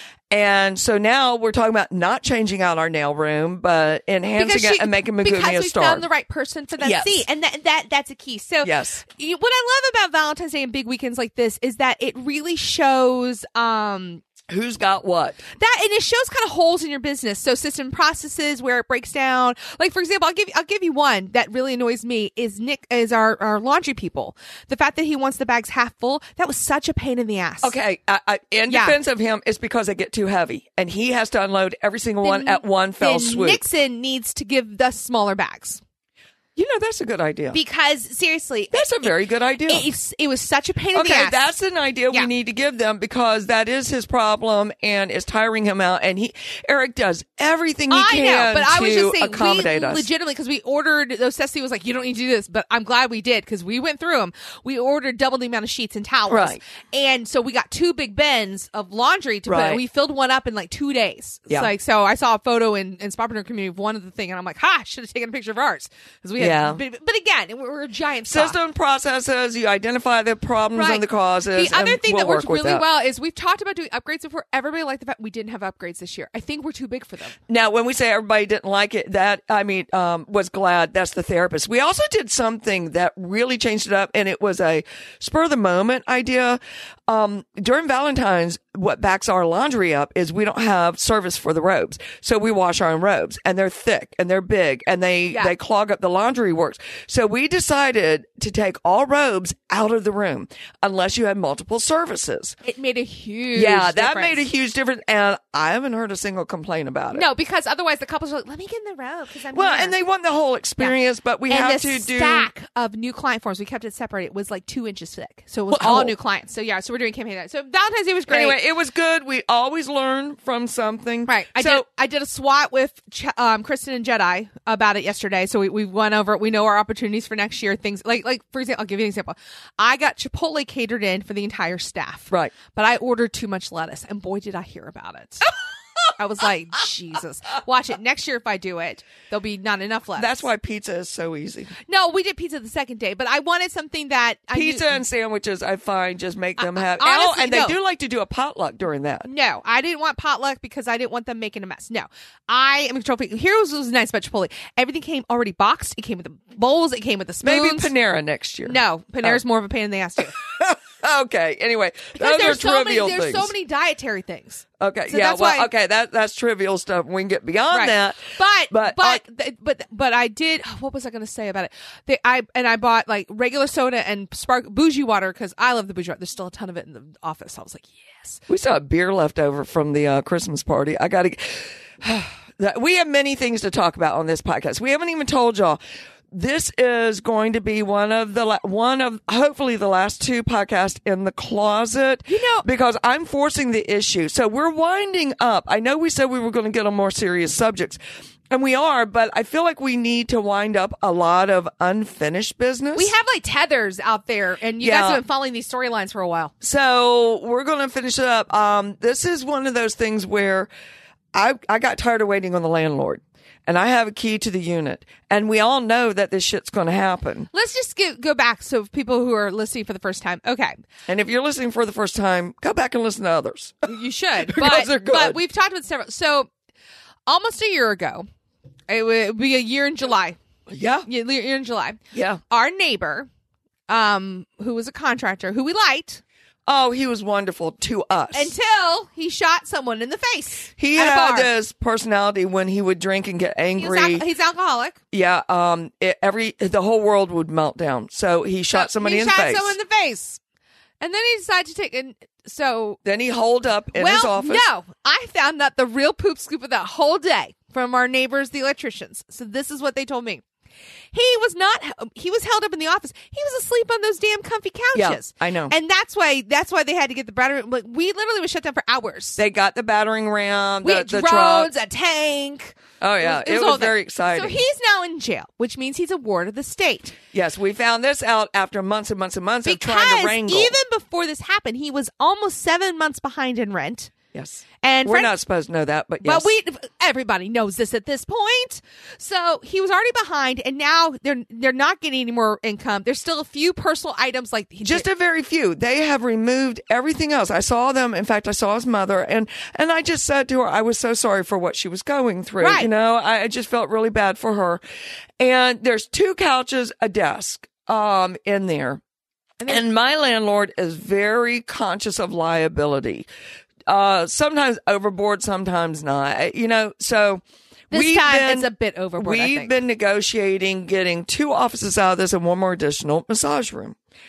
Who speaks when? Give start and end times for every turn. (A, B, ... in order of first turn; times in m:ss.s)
0:00.3-0:06.1 A
0:04.4-0:14.2 B
0:06.8-0:07.3 A
0:08.6-0:09.0 A
0:14.5-0:15.4 A
0:15.6-0:27.8 B
0:27.6-0:33.6 A
0:28.7-0:29.0 B
0:32.2-0:35.8 B
0:36.6-0:37.6 A
0:37.5-0:38.9 B
0:38.7-0:39.9 A
0:39.7-0:41.4 B
0:40.9-0:50.1 A
0:47.9-1:08.6 B
0:56.3-0:56.6 A
0:59.5-0:59.8 A
1:06.4-1:06.8 A
1:08.3-1:12.8 A
1:10.7-1:17.4 B
1:17.5-1:42.6 A
1:42.6-1:44.5 B
1:43.6-1:47.3 A
1:47.1-1:50.0 B
1:49.5-1:52.5 A
1:51.5-1:58.6 B
1:55.7-1:56.1 A
1:58.3-2:01.8 A
2:01.3-2:15.5 B
2:16.2-2:20.4 B
2:20.2-2:21.7 A
2:21.9-2:25.0 B
2:24.5-2:29.3 A
2:26.6-2:27.8 B
2:29.2-2:37.9 B
2:37.4-2:39.4 A
2:38.6-2:40.4 B
2:40.4-2:43.5 A
2:42.2-2:45.7 B
2:44.8-2:49.2 A
2:47.7-2:58.4 B
2:58.5-3:05.8 A
3:06.3-3:18.0 A
3:12.3-3:12.6 B
3:18.5-3:23.1 A
3:23.0-3:26.5 B
3:24.8-3:25.2 A
3:26.6-3:30.7 A
3:31.3-3:37.5 A
3:37.5-3:40.8 B
3:41.1-3:43.9 A
3:43.9-3:46.5 B
3:44.4-3:45.4 A
3:47.3-3:48.3 B
3:48.9-3:50.4 B
3:50.7-3:51.1 A
3:51.1-3:53.3 B
3:52.1-3:52.4 A
3:53.9-3:56.2 B
3:56.7-3:58.5 A
3:58.3-4:01.5 B
4:00.8-4:04.2 A
4:03.8-4:05.0 B
4:05.1-4:09.8 A
4:08.7-4:10.4 B
4:11.0-4:13.0 B
4:13.0-4:14.6 A
4:14.0-4:20.4 B
4:21.1-4:29.4 B
4:25.0-4:25.7 A
4:29.4-4:31.7 A
4:30.8-4:37.2 B
4:33.0-4:34.6 A
4:37.3-4:40.8 A
4:39.6-4:44.1 B
4:44.3-4:46.5 A
4:44.8-4:45.3 B
4:46.2-4:55.1 B
4:54.8-5:04.8 A
5:02.6-5:02.9 B
5:05.4-5:09.0 A
5:09.6-5:13.3 A
5:13.9-5:24.0 A
5:17.9-5:19.8 B